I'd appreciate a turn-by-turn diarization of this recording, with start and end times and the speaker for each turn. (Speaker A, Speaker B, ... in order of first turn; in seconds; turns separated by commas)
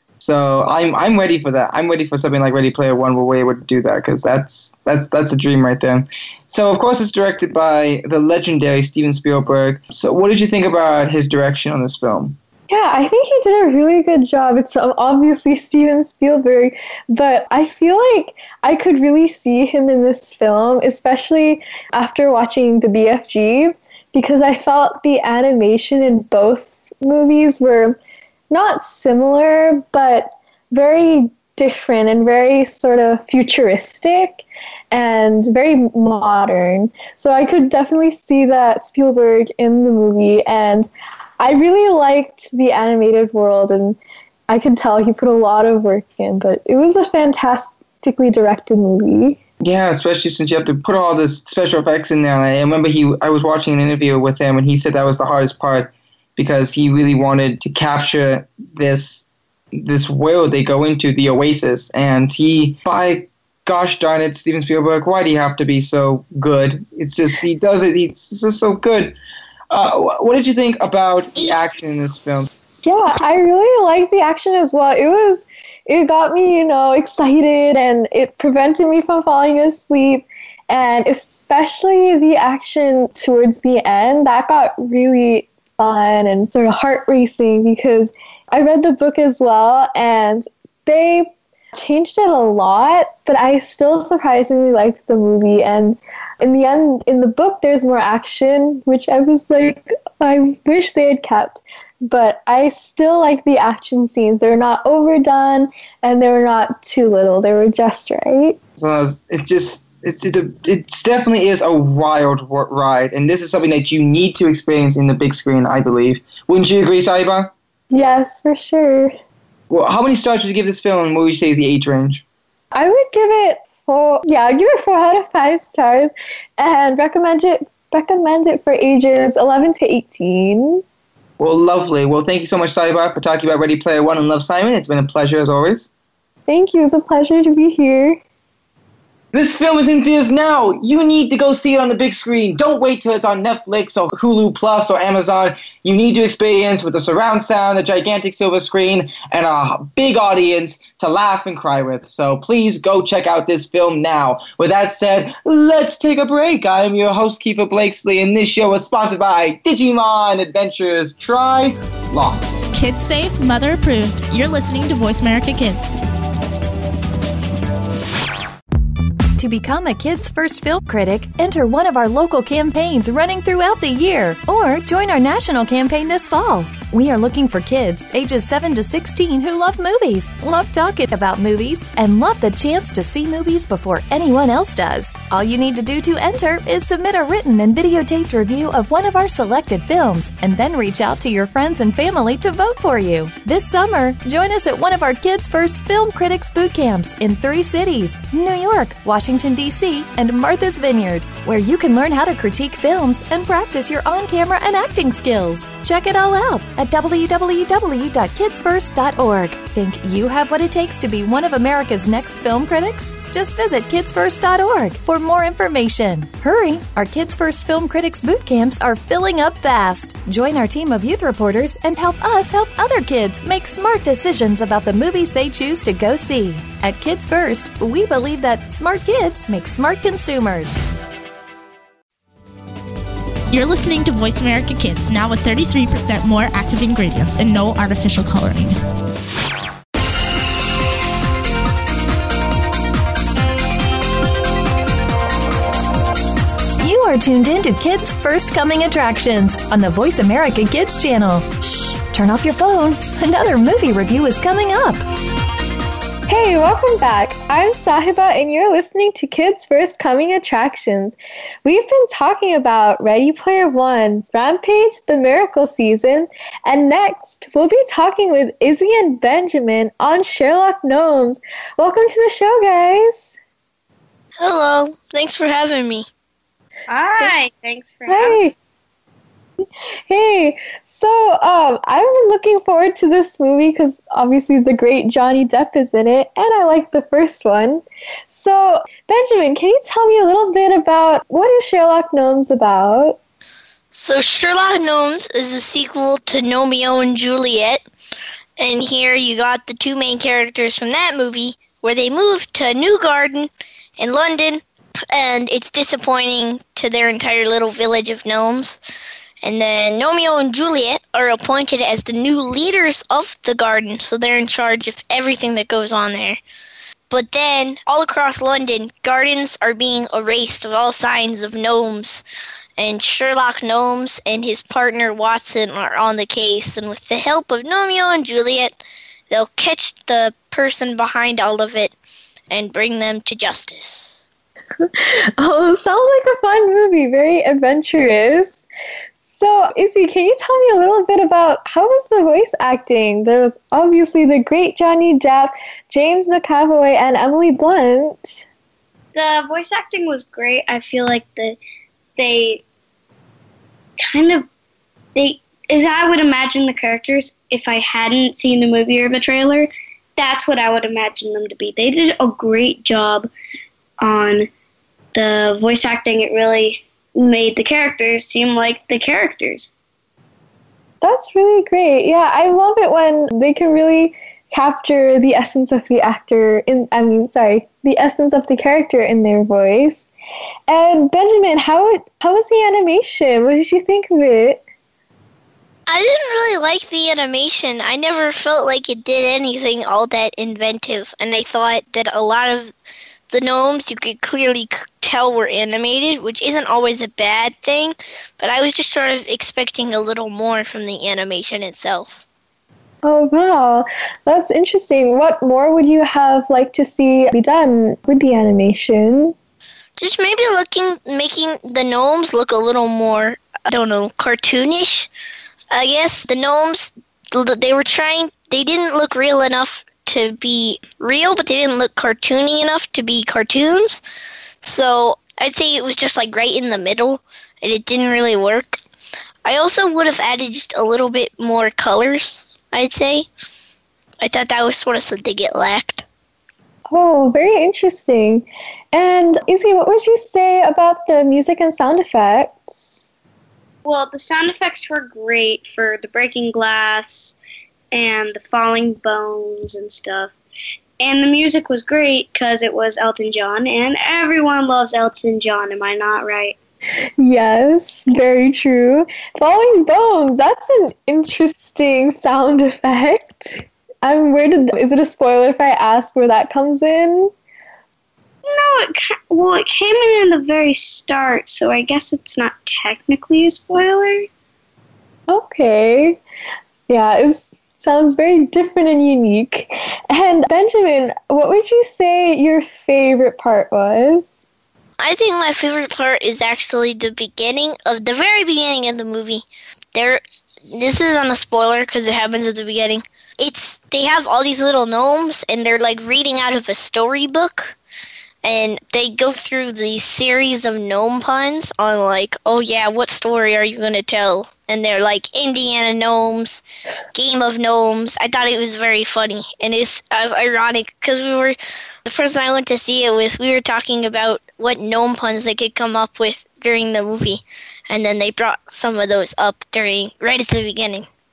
Speaker A: 0.2-12.4, Speaker B: 12.7-28.0, Speaker B: 28.5-49.4, Speaker A: 49.6-69.2, Speaker A: 69.7-72.5, Speaker B: 72.8-108.6, Speaker A: 108.8-117.5, Speaker B: 117.9-119.1, Speaker A: 119.7-122.2, Speaker B: 122.7-130.8, Speaker A: 131.4-135.9, Speaker B: 136.5-138.2, Speaker A: 139.3-162.7, Speaker C: 162.7-165.9, Speaker D: 169.4-230.8, Speaker C: 233.5-238.8, Speaker D: 246.8-255.0, Speaker B: 256.3-273.4, Speaker E: 274.4-276.1, Speaker F: 276.9-278.5, Speaker B: 278.1-278.5, Speaker B: 280.1-293.2, Speaker E: 293.9-297.8, Speaker E: 298.6-308.8, Speaker E: 309.4-316.4, Speaker E: 317.1-322.2, Speaker E: 322.8-328.8, Speaker E: 329.3-331.9, Speaker E: 332.5-334.2, Speaker B: 334.8-338.6, Speaker B: 339.2-348.4, Speaker F: 349.1-351.6, Speaker F: 352.2-352.6, Speaker F: 354.0-354.5, Speaker F: 355.1-363.3, Speaker F: 364.0-364.5, Speaker F: 365.1-369.7, Speaker B: 371.0-380.1, Speaker B: 380.7-384.6, Speaker E: 385.9-392.7, Speaker E: 393.3-402.2, Speaker B: 403.0-409.4, Speaker E: 410.0-415.1, Speaker E: 415.7-424.0, Speaker E: 424.6-428.8, Speaker E: 429.4-433.3, Speaker E: 434.2-436.1, Speaker B: 436.9-443.1, Speaker F: 443.9-447.4, Speaker F: 447.9-450.4, Speaker F: 451.0-456.6, Speaker B: 457.2-467.3, Speaker F: 468.4-474.3, Speaker B: 475.3-476.2, Speaker B: 476.9-484.4, Speaker E: 485.0-497.8, Speaker E: 498.4-506.6, Speaker E: 507.1-521.1